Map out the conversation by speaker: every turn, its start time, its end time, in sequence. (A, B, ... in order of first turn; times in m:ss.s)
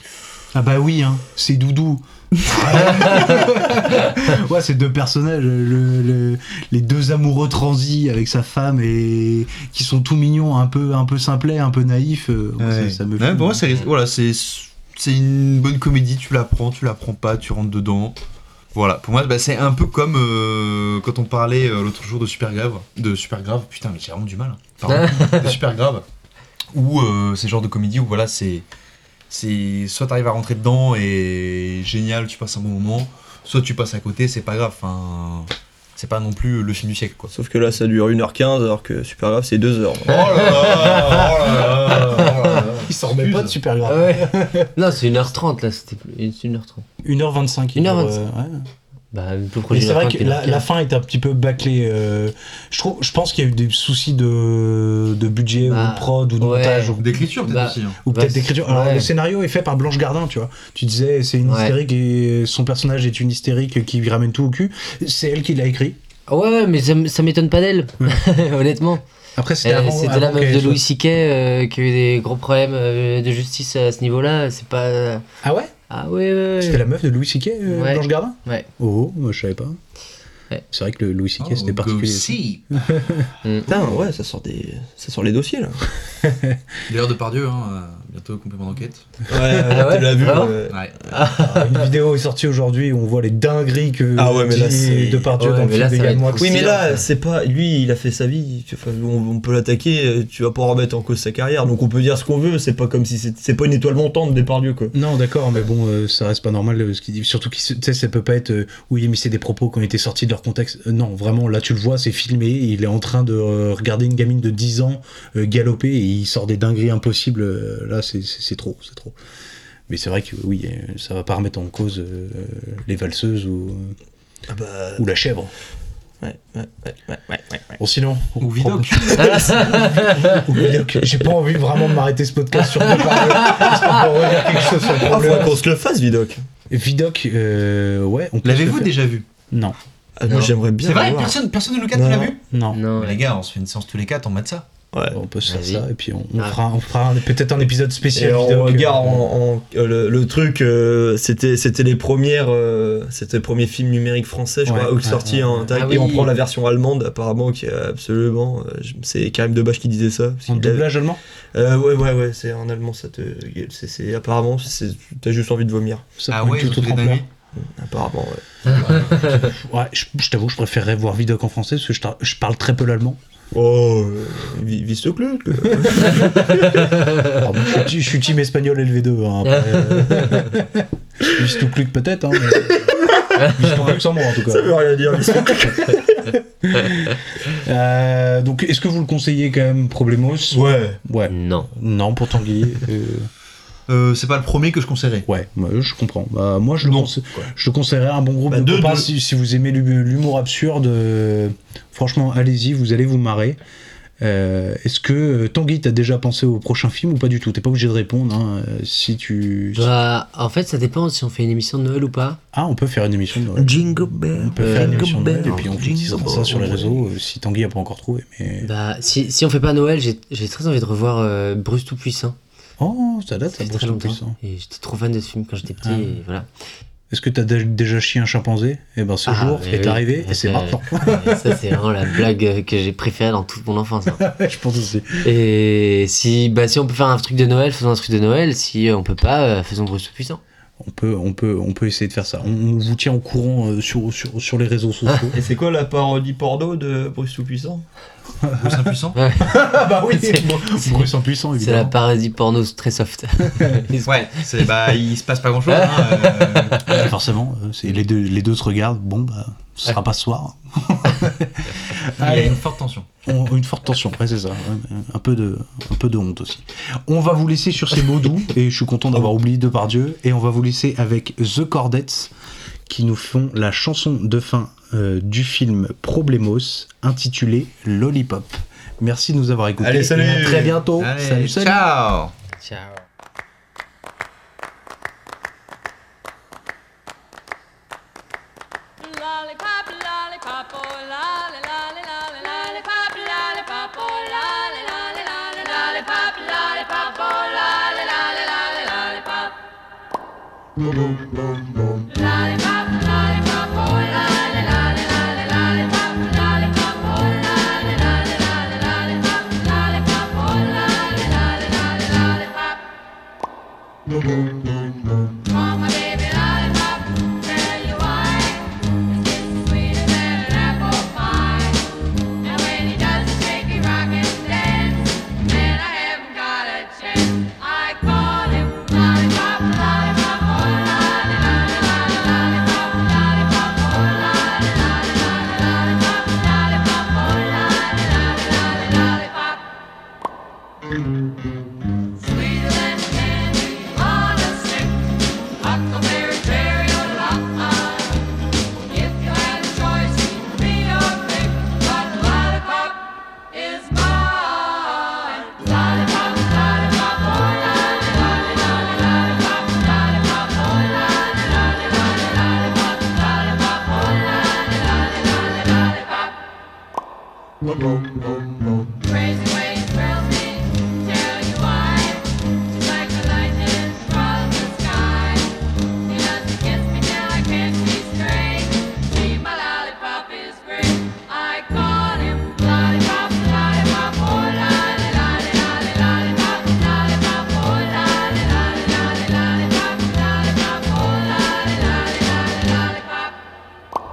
0:00.5-0:13.6 A
0:12.6-0:18.2 B
0:18.7-0:26.0 B
0:26.7-0:28.6 B
0:29.3-0:37.3 B
0:37.3-0:40.5 C
0:40.1-0:43.6 B
0:42.8-0:44.7 A
0:43.8-0:46.8 D
0:47.0-0:48.6 A
0:47.7-0:48.2 D
0:49.1-0:50.7 D
0:49.7-0:57.2 A
0:55.6-0:59.1 D
0:57.0-0:58.0 B
0:58.0-1:06.0 A
1:01.4-1:01.7 D
1:06.3-1:09.0 D
1:09.4-1:10.8 A
1:09.6-1:15.2 D
1:15.4-1:15.7 A
1:15.9-1:16.8 D
1:16.6-1:19.8 A
1:17.7-1:18.7 D
1:20.7-1:23.3 A
1:21.4-1:22.8 B
1:23.7-1:25.9 C
1:26.2-1:26.6 A
1:26.9-1:29.0 B
1:29.3-1:30.8 C
1:29.7-1:30.5 D
1:30.7-1:31.0 B
1:31.1-1:31.8 D
1:31.3-1:36.8 A
1:34.2-1:35.3 C
1:35.4-1:37.0 D
1:36.4-1:44.9 C
1:44.9-1:59.1 A
1:59.9-2:04.0 A
2:04.5-2:05.0 C
2:05.0-2:05.5 A
2:06.2-2:07.7 C
2:07.8-2:15.6 A
2:08.4-2:08.8 B
2:09.0-2:10.1 C
2:09.5-2:10.2 D
2:12.8-2:13.7 D
2:14.9-2:16.4 C
2:16.7-2:18.9 A
2:18.4-2:19.2 B
2:19.5-2:19.8 A
2:20.2-2:21.3 C
2:20.3-2:22.4 B
2:21.9-2:22.3 C
2:22.5-2:22.8 A
2:22.7-2:23.2 D
2:23.0-2:24.6 B
2:25.1-2:29.2 A
2:25.4-2:25.8 D
2:28.1-2:40.8 C
2:34.6-2:35.5 A
2:35.7-2:36.3 D
2:40.5-2:41.2 A
2:41.5-2:46.0 C
2:46.2-2:47.2 A
2:46.3-2:47.3 B
2:47.6-2:49.1 C
2:48.9-2:53.2 A
2:53.5-2:56.9 C
2:55.8-2:56.3 A
2:57.4-3:13.3 A
2:59.4-3:00.5 D
3:02.9-3:06.3 C
3:03.4-3:03.6 D
3:10.5-3:11.0 C
3:11.3-3:11.7 D
3:13.9-3:15.3 B
3:15.3-3:23.6 A
3:16.8-3:17.1 C
3:18.5-3:19.1 C
3:24.2-3:29.9 A
3:29.7-3:32.4 D
3:32.5-3:38.7 A
3:33.6-3:37.0 C
3:34.6-3:35.0 D
3:38.6-3:42.4 D
3:42.8-3:44.4 A
3:43.5-3:46.5 D
3:45.8-3:46.1 A
3:47.1-3:51.6 A
3:49.2-3:54.2 D
3:54.1-3:55.3 A
3:55.2-4:00.4 D
4:00.8-4:05.4 A
4:05.3-4:07.8 C
4:08.4-4:08.9 A
4:08.6-4:09.2 B
4:09.2-4:14.4 D
4:09.4-4:12.0 A
4:14.0-4:17.1 B
4:15.7-4:16.9 D
4:16.9-4:22.6 A
4:22.2-4:23.1 B
4:23.2-4:32.3 A
4:32.9-4:41.8 A
4:39.8-4:40.8 C
4:40.9-4:42.3 B
4:42.6-4:43.0 D
4:49.0-4:59.5 E
5:00.8-5:12.8 E
5:14.2-5:39.6 E
5:42.1-6:06.4 E
6:07.9-6:33.4 E